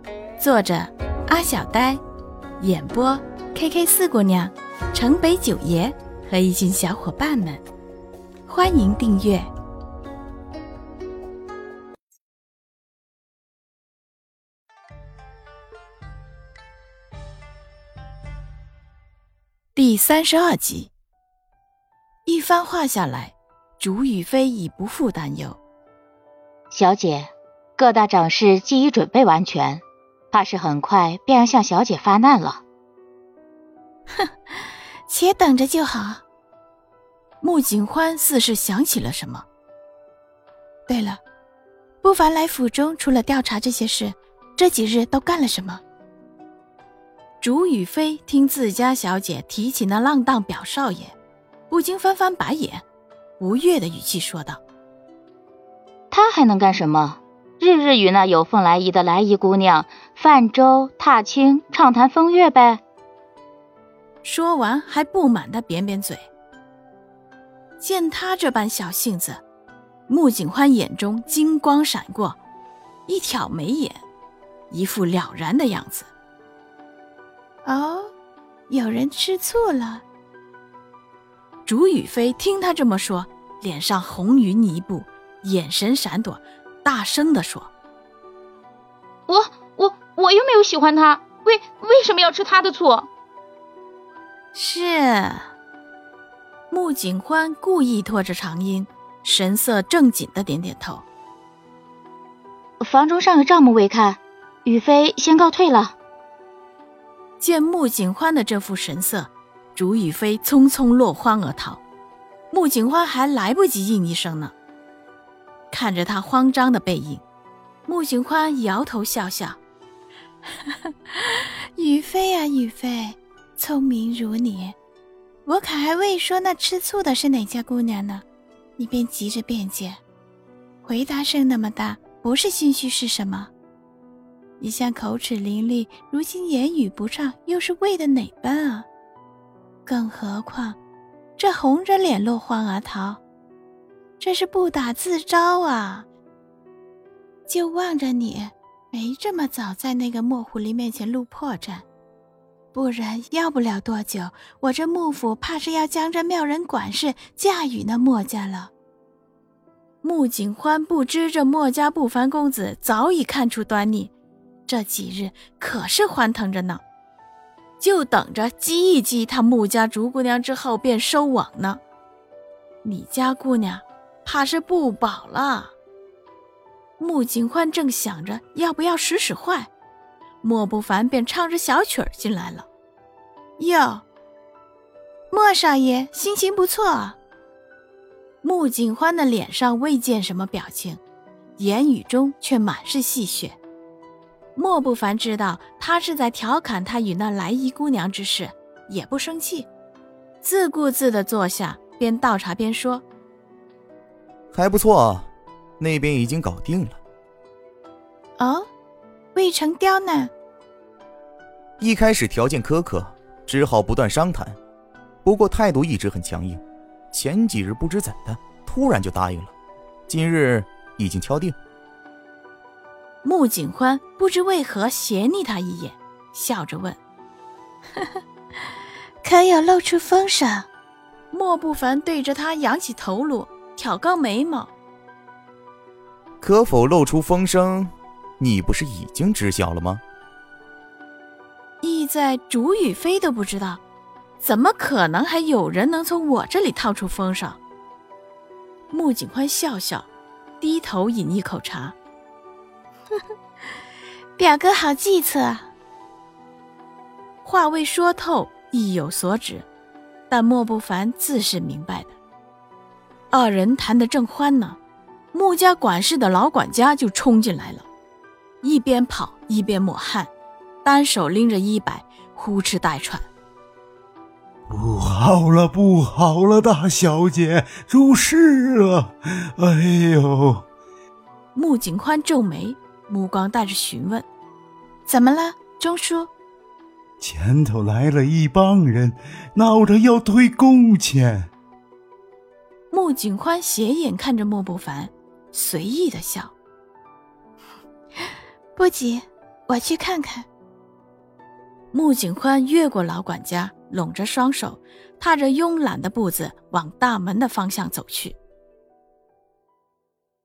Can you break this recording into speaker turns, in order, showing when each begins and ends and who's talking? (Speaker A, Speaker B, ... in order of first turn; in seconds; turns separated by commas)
Speaker A: 0.4-2.0, Speaker A: 2.6-7.6, Speaker A: 8.5-9.5, Speaker A: 19.7-20.9, Speaker A: 22.2-25.6, Speaker B: 26.7-32.6, Speaker A: 35.1-36.2, Speaker A: 37.4-39.4, Speaker A: 40.9-41.2, Speaker A: 42.0-45.8, Speaker A: 47.4-51.1, Speaker A: 51.7-52.8, Speaker A: 53.4-54.6, Speaker B: 56.1-62.8, Speaker A: 64.2-66.3, Speaker A: 67.8-69.4, Speaker A: 70.1-72.4, Speaker A: 73.1-74.0, Speaker A: 74.7-76.1, Speaker A: 77.6-78.1, Speaker A: 78.7-80.0, Speaker A: 81.7-87.7, Speaker C: 89.3-93.1, Speaker A: 94.5-95.5, Speaker A: 96.7-101.0, Speaker B: 102.8-105.9, Speaker A: 107.4-111.8, Speaker A: 112.5-114.5, Speaker A: 115.7-117.2, Speaker A: 117.8-119.6, Speaker A: 120.7-124.8, Speaker A: 125.5-128.2, Speaker A: 128.8-130.0, Speaker A: 130.8-133.5, Speaker A: 134.6-138.9, Speaker A: 139.8-140.8, Speaker A: 141.4-143.2, Speaker A: 144.2-146.1, Speaker A: 147.5-151.8, Speaker A: 152.7-158.7, Speaker A: 160.0-164.1, Speaker A: 164.7-166.8, Speaker A: 167.8-171.8, Speaker A: 172.8-175.7, Speaker A: 177.0-179.7, Speaker A: 180.4-182.7, Speaker A: 183.6-184.0, Speaker A: 185.3-187.2, Speaker A: 188.4-191.0, Speaker A: 191.6-193.6, Speaker A: 194.6-199.7, Speaker A: 200.4-203.0, Speaker D: 204.5-205.3, Speaker D: 205.8-207.0, Speaker A: 208.4-208.7, Speaker A: 209.3-210.3, Speaker D: 211.8-214.6, Speaker D: 215.2-219.5, Speaker D: 220.1-221.6, Speaker A: 223.2-227.0, Speaker A: 229.2-230.7, Speaker A: 231.3-234.7, Speaker D: 236.4-240.0, Speaker A: 241.8-243.8, Speaker A: 244.4-247.6, Speaker A: 248.9-250.1, Speaker A: 250.6-251.9, Speaker A: 254.4-255.7, Speaker A: 257.4-259.7, Speaker A: 260.3-262.1, Speaker A: 263.3-264.8, Speaker A: 265.3-267.9, Speaker A: 268.6-270.3, Speaker A: 270.8-273.3, Speaker E: 274.7-280.6, Speaker A: 281.5-284.2, Speaker A: 285.1-286.3, Speaker E: 287.2-291.5, Speaker A: 292.9-296.5, Speaker A: 298.8-300.5, Speaker A: 301.9-308.4